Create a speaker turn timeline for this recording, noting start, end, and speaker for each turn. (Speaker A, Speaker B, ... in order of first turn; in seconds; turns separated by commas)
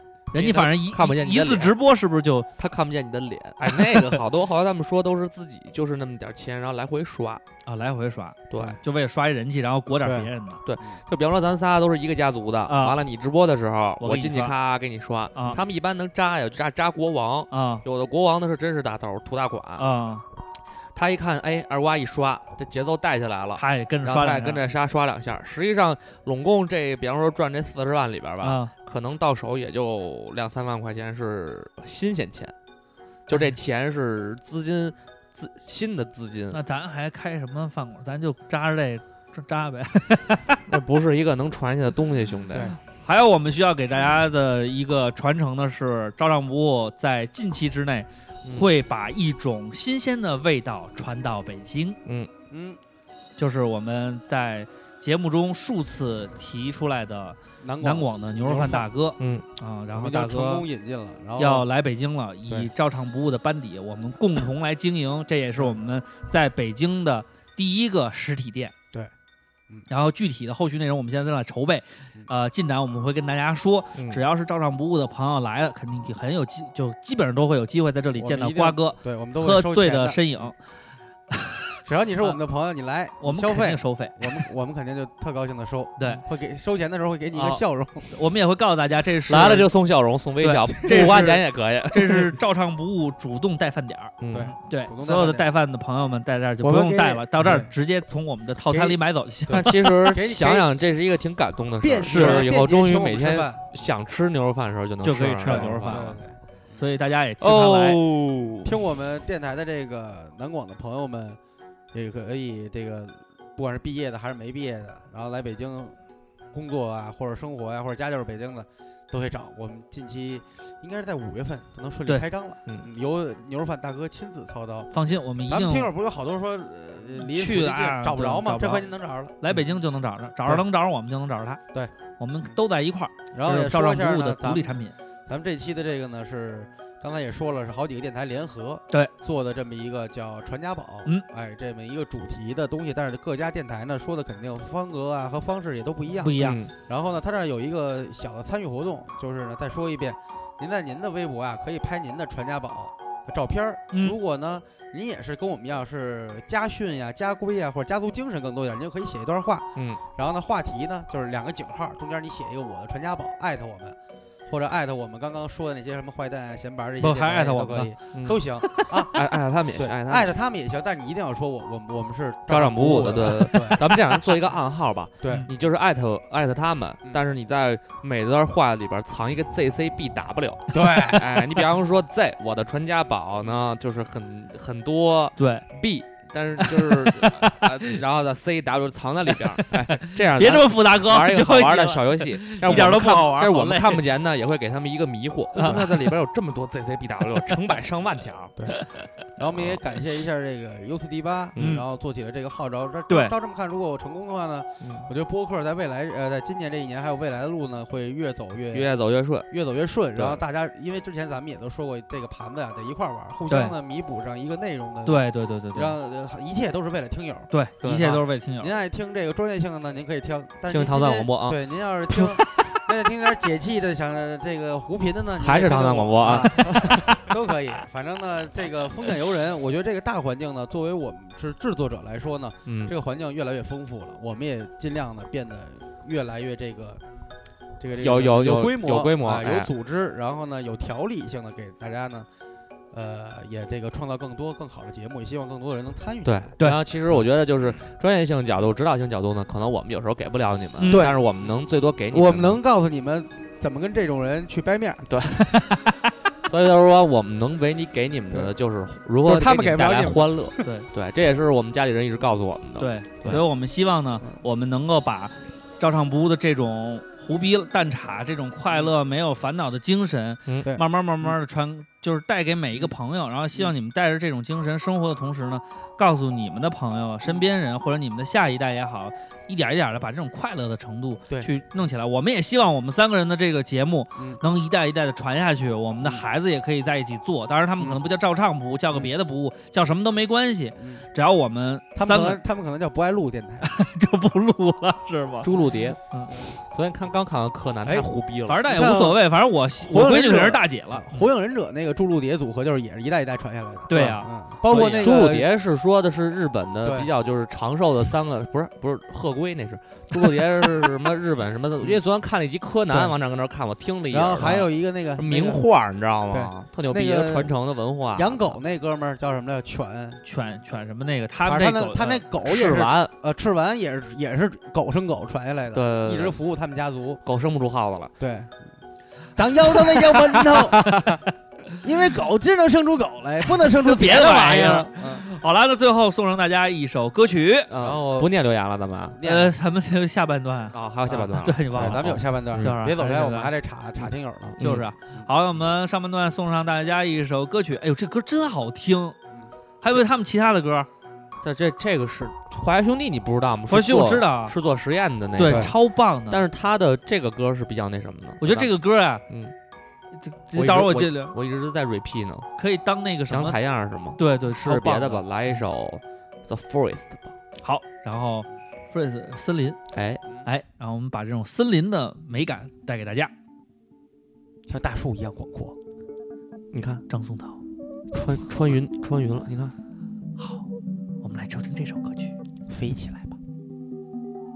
Speaker A: 0.3-2.5, Speaker B: 0.3-1.7, Speaker B: 2.6-7.4, Speaker A: 3.7-4.2, Speaker A: 7.7-10.6, Speaker B: 8.5-8.8, Speaker C: 10.0-10.3, Speaker B: 10.6-19.9, Speaker A: 12.7-13.0, Speaker A: 14.0-14.6, Speaker A: 15.3-15.6, Speaker A: 17.5-17.9, Speaker A: 19.8-20.2, Speaker B: 20.9-32.5, Speaker A: 23.6-24.7, Speaker A: 28.4-28.7, Speaker B: 33.3-36.6, Speaker A: 36.5-40.6, Speaker B: 40.7-42.8, Speaker A: 42.9-52.0, Speaker B: 48.4-48.7, Speaker B: 52.0-52.3, Speaker C: 52.5-52.8, Speaker A: 53.4-60.6, Speaker C: 57.6-58.9, Speaker B: 59.2-59.5, Speaker C: 59.9-61.7, Speaker A: 61.4-68.7, Speaker A: 69.9-80.6, Speaker B: 74.0-74.2, Speaker C: 78.2-80.5, Speaker A: 81.3-82.4, Speaker C: 81.8-88.1, Speaker A: 83.2-84.4, Speaker A: 86.0-86.2, Speaker A: 87.3-89.7, Speaker B: 89.3-92.3, Speaker A: 90.4-100.0, Speaker C: 90.9-91.3, Speaker B: 94.2-94.5, Speaker C: 94.3-95.5, Speaker C: 96.6-97.7, Speaker C: 98.7-100.7, Speaker B: 99.5-106.2, Speaker C: 101.8-103.7, Speaker A: 102.0-102.5, Speaker A: 105.0-106.2, Speaker C: 105.4-106.8, Speaker A: 106.8-108.0, Speaker B: 107.4-108.8, Speaker C: 108.7-111.4, Speaker C: 111.9-116.0, Speaker C: 116.5-124.9, Speaker A: 124.9-125.9, Speaker C: 125.5-129.4, Speaker A: 127.2-128.9, Speaker A: 129.4-131.6, Speaker C: 131.7-132.6, Speaker A: 132.2-135.0, Speaker C: 133.3-164.0, Speaker A: 146.2-146.6, Speaker B: 146.4-146.7, Speaker B: 159.8-160.0, Speaker C: 164.5-174.0, Speaker A: 167.0-167.9, Speaker B: 168.1-168.4, Speaker B: 169.1-170.3, Speaker B: 172.5-198.6, Speaker A: 173.1-173.8, Speaker C: 175.2-175.5, Speaker C: 180.7-181.4, Speaker A: 180.9-181.2, Speaker A: 185.4-185.7, Speaker A: 186.6-187.9, Speaker A: 189.6-194.0, Speaker C: 192.7-192.9, Speaker A: 195.5-196.1, Speaker C: 195.6-195.9, Speaker A: 198.7-199.0, Speaker C: 199.4-208.9, Speaker B: 199.5-199.8, Speaker B: 201.6-201.8, Speaker A: 201.6-201.8, Speaker A: 203.1-203.3, Speaker B: 204.8-205.1, Speaker B: 208.7-209.5, Speaker C: 209.5-237.0, Speaker B: 210.2-210.4, Speaker A: 213.5-213.7, Speaker A: 215.1-216.0, Speaker A: 217.5-218.7, Speaker B: 217.8-218.2, Speaker B: 220.7-221.6, Speaker A: 222.2-222.6, Speaker B: 225.4-227.2, Speaker A: 226.4-227.2, Speaker B: 232.7-232.9, Speaker C: 237.8-242.3, Speaker B: 238.0-239.7, Speaker C: 242.9-246.5, Speaker B: 246.2-252.6, Speaker A: 250.8-251.1, Speaker C: 250.8-251.2, Speaker C: 252.1-255.1, Speaker B: 255.1-255.4, Speaker A: 255.2-256.1, Speaker B: 256.5-263.4, Speaker C: 259.2-260.6, Speaker A: 262.8-292.4, Speaker C: 284.2-284.4, Speaker C: 290.8-291.1, Speaker C: 291.9-293.7, Speaker A: 293.6-296.3, Speaker B: 295.4-298.7, Speaker C: 297.9-298.1, Speaker A: 298.5-301.0, Speaker C: 298.6-299.2, Speaker C: 299.8-305.5, Speaker A: 303.9-305.2, Speaker B: 304.7-318.6, Speaker C: 306.8-307.1, Speaker C: 314.1-315.6, Speaker C: 316.3-317.5, Speaker C: 318.1-320.2, Speaker A: 320.2-322.2, Speaker C: 321.4-327.2, Speaker B: 322.4-323.1, Speaker B: 325.7-326.4, Speaker B: 327.2-328.1, Speaker C: 328.2-328.7, Speaker C: 329.4-331.2, Speaker A: 330.0-331.8, Speaker B: 330.6-330.9, Speaker C: 331.8-335.3, Speaker A: 333.5-337.7, Speaker B: 337.7-339.2, Speaker C: 337.8-338.3, Speaker C: 339.2-339.5, Speaker A: 339.2-343.5, Speaker B: 340.7-342.8, Speaker C: 341.7-344.6, Speaker B: 344.5-344.8, Speaker A: 344.6-349.2, Speaker A: 349.8-350.9, Speaker B: 351.4-358.7, Speaker A: 353.7-354.6, Speaker A: 355.4-356.4, Speaker C: 355.4-355.7, Speaker A: 358.4-359.2, Speaker B: 359.3-359.5, Speaker A: 360.1-361.4, Speaker B: 360.5-362.5, Speaker A: 362.6-363.6, Speaker B: 363.3-367.3, Speaker A: 364.2-365.2, Speaker A: 367.6-369.8, Speaker B: 369.9-370.2, Speaker A: 370.4-373.3, Speaker C: 374.7-375.8, Speaker B: 376.7-377.1, Speaker A: 377.1-377.6, Speaker B: 378.1-379.8, Speaker A: 380.4-380.7, Speaker A: 381.2-382.4, Speaker C: 382.7-383.4